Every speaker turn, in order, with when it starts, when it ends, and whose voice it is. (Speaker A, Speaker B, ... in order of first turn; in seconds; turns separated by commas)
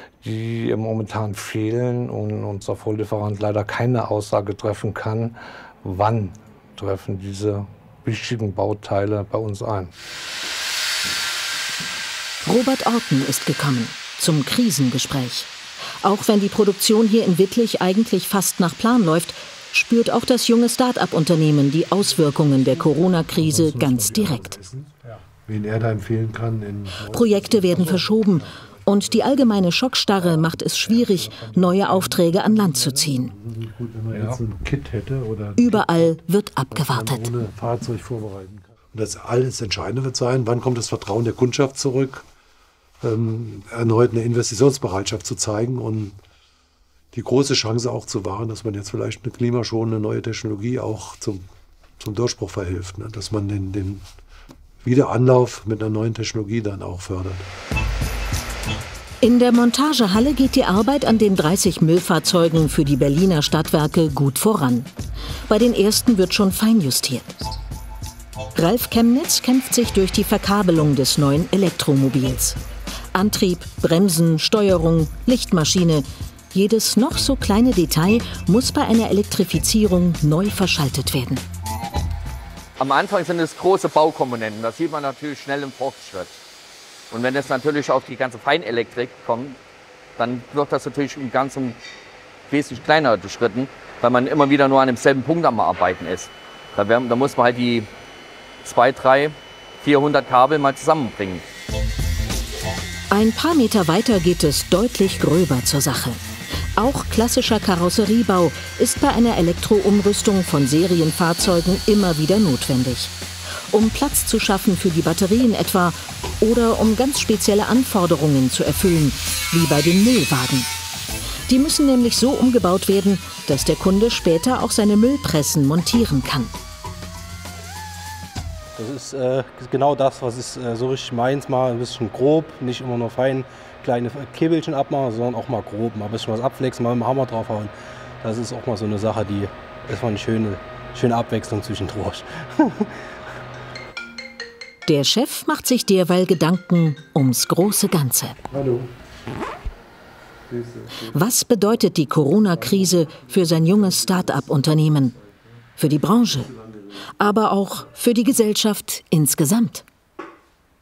Speaker A: 0.2-9.9, Speaker B: 12.4-15.5, Speaker B: 16.0-24.6, Speaker C: 23.3-28.3, Speaker B: 27.1-33.3, Speaker C: 31.1-36.2, Speaker B: 35.6-37.3, Speaker C: 36.7-42.2, Speaker C: 43.0-46.1, Speaker C: 47.1-51.4, Speaker C: 52.0-54.0, Speaker C: 54.8-57.5, Speaker B: 59.2-64.9, Speaker B: 65.5-67.3, Speaker B: 68.5-72.6, Speaker B: 73.1-81.5, Speaker D: 82.8-86.4, Speaker D: 87.1-89.6, Speaker D: 90.2-91.8, Speaker D: 92.5-97.9, Speaker D: 98.6-101.4, Speaker B: 103.1-106.2, Speaker B: 106.8-113.1, Speaker B: 113.7-120.7, Speaker B: 121.5-126.5, Speaker E: 128.8-142.9, Speaker B: 144.8-148.4, Speaker C: 148.5-148.9, Speaker C: 150.5-151.0, Speaker B: 151.1-155.2, Speaker B: 155.8-156.5, Speaker B: 157.2-159.8